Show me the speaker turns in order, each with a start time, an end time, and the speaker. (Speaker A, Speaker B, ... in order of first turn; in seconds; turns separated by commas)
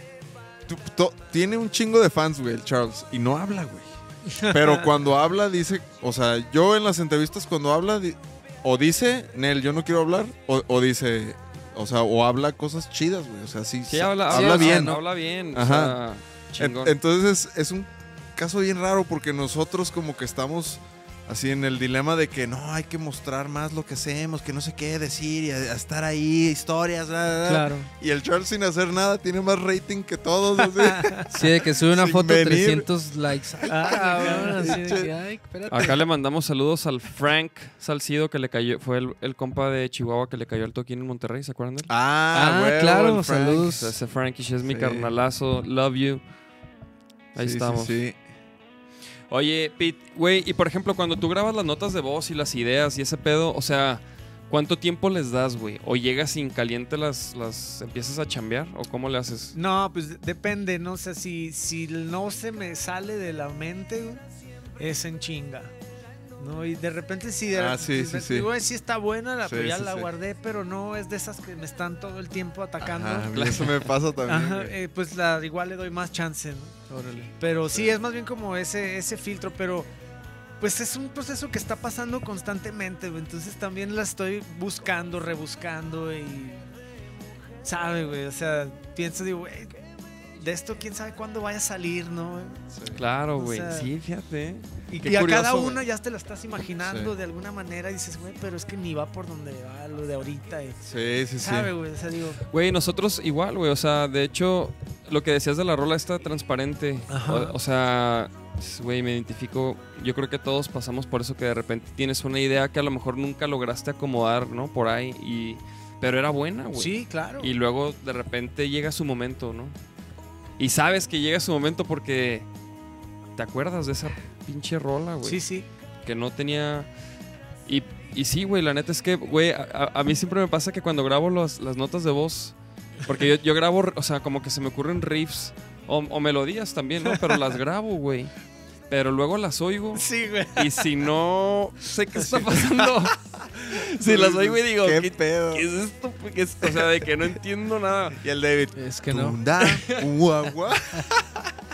Speaker A: 0.7-16.0, Speaker B: 4.3-4.8, Speaker C: 13.9-16.9, Speaker D: 14.3-15.0, Speaker A: 16.6-32.9, Speaker D: 27.5-27.9, Speaker B: 30.8-31.3, Speaker D: 31.3-36.0, Speaker A: 33.6-35.1, Speaker B: 33.7-34.8, Speaker C: 35.7-41.9, Speaker A: 41.9-43.8, Speaker D: 42.3-44.0, Speaker C: 43.7-46.2, Speaker A: 44.6-45.1, Speaker C: 47.4-48.0, Speaker A: 47.4-48.2, Speaker C: 49.3-59.6, Speaker B: 59.5-64.2, Speaker B: 64.8-65.7, Speaker B: 66.4-73.3, Speaker A: 67.5-68.5, Speaker A: 69.4-70.1, Speaker A: 72.8-74.8, Speaker C: 73.3-73.9, Speaker B: 74.2-79.9, Speaker A: 77.7-78.0, Speaker B: 80.6-86.7, Speaker B: 87.6-89.8, Speaker B: 90.3-92.6, Speaker A: 92.7-93.0, Speaker C: 92.9-95.8, Speaker B: 93.3-93.9, Speaker B: 94.9-100.8, Speaker A: 96.8-97.1, Speaker A: 100.8-101.7, Speaker B: 101.4-102.4, Speaker C: 102.5-119.8, Speaker B: 107.1-107.5, Speaker B: 116.8-117.5, Speaker C: 120.6-122.5, Speaker C: 123.4-125.4, Speaker B: 125.2-125.7, Speaker C: 126.0-126.9, Speaker C: 127.7-138.3, Speaker B: 137.1-137.4, Speaker C: 138.9-148.2, Speaker B: 139.9-140.9, Speaker A: 143.6-145.7, Speaker A: 148.2-151.5, Speaker D: 148.8-149.4, Speaker C: 149.6-150.1